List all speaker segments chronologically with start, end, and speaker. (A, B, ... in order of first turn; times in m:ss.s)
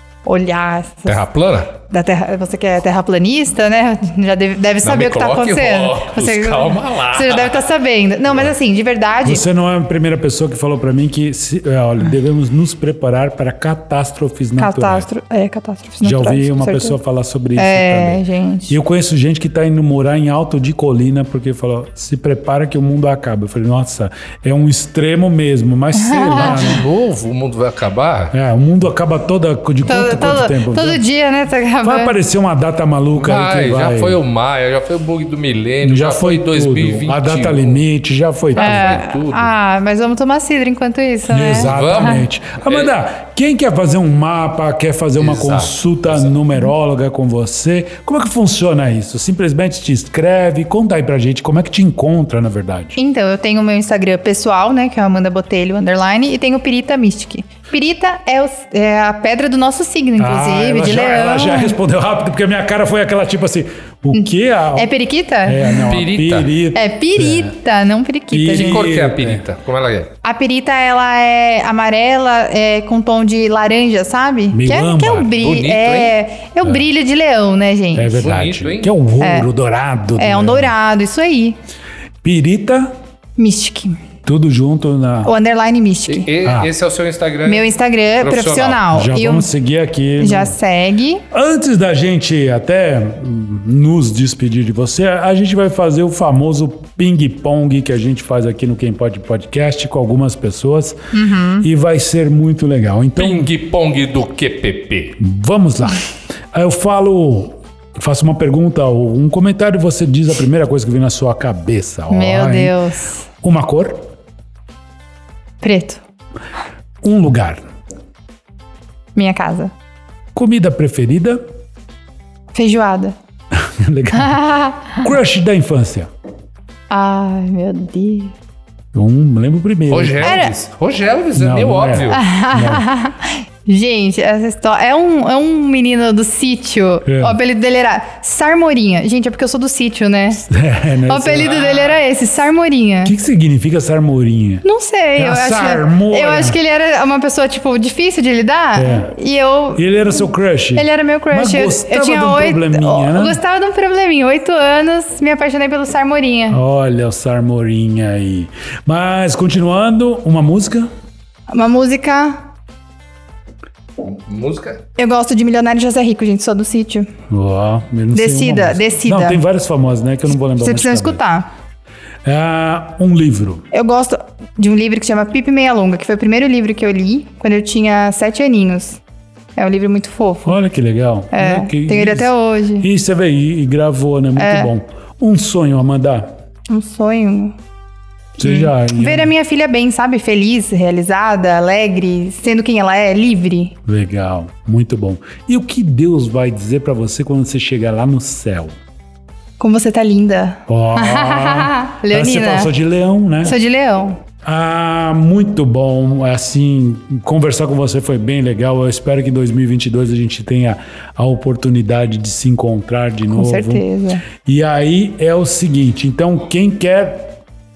0:00.2-0:01.2 A
0:01.1-0:01.7 B
0:01.9-0:09.4 A
0:04.8-0:07.7 B
0:09.2-0:15.1 C
0:14.6-0:17.0 A
0:16.0-0:26.8 C
0:17.6-0:18.8 A
0:26.0-0:26.8 A
0:26.4-0:28.4 B
0:28.3-0:31.0 C
0:29.9-0:32.2 A
0:31.8-0:34.2 C
0:33.2-0:37.8 B
0:35.8-0:39.0 C
0:38.5-0:39.5 B
0:38.6-0:42.2 A
0:41.3-0:53.0 C
0:41.5-0:42.9 B
0:45.2-0:46.3 B
0:53.0-1:01.8 A
1:00.2-1:04.9 C
1:04.1-1:05.9 A
1:05.4-1:07.5 C
1:05.9-1:06.5 B
1:06.7-1:08.9 A
1:08.3-1:09.4 C
1:08.5-1:10.1 B
1:10.2-1:18.3 A
1:14.5-1:15.3 C
1:15.4-1:16.2 B
1:18.0-1:20.7 C
1:18.2-1:18.9 B
1:19.2-1:19.5 A
1:20.2-1:21.6 A
1:22.2-1:22.9 C
1:23.4-1:24.0 A
1:24.3-1:25.3 C
1:25.2-1:26.3 A
1:26.1-1:28.9 B
1:26.4-1:26.7 C
1:27.5-1:29.5 A
1:28.9-1:30.6 C
1:30.2-1:31.2 A
1:31.3-1:41.0 C
1:41.1-1:41.7 A
1:41.6-1:43.5 C
1:43.2-1:45.2 B
1:45.2-1:52.8 C
1:52.1-1:53.2 A
1:53.4-1:54.0 C
1:55.6-1:56.0 A
1:57.0-1:57.6 C
1:59.2-1:59.7 A
2:00.4-2:01.4 C
2:02.5-2:03.2 A
2:03.5-2:06.1 C
2:04.1-2:05.0 A
2:06.9-2:08.3 A
2:08.9-2:10.4 C
2:09.9-2:12.2 B
2:10.2-2:10.5 A
2:11.4-2:12.8 C
2:12.1-2:20.4 A
2:17.1-2:17.4 C
2:20.5-2:21.6 C
2:21.1-2:23.1 A
2:21.4-2:22.0 B
2:23.0-2:24.6 C
2:24.6-2:30.2 A
2:25.2-2:26.6 C
2:28.8-2:29.1 C
2:29.8-2:33.4 C
2:30.8-2:36.6 A
2:36.5-2:40.9 C
2:41.5-2:42.4 A
2:44.0-2:44.8 B
2:45.0-2:47.1 A
2:47.3-2:51.2 C
2:48.1-2:49.4 A
2:50.6-2:51.5 A
2:52.2-2:53.6 C
2:53.7-2:59.0 A
2:59.6-3:00.6 A
3:00.4-3:06.3 C
3:01.3-3:02.9 A
3:04.4-3:04.7 A
3:06.7-3:07.6 A
3:08.4-3:13.8 A
3:08.4-3:09.3 C
3:13.9-3:18.8 C
3:19.6-3:22.7 A
3:20.7-3:23.6 C
3:23.4-3:24.2 A
3:24.4-3:37.3 C
3:33.3-3:34.2 A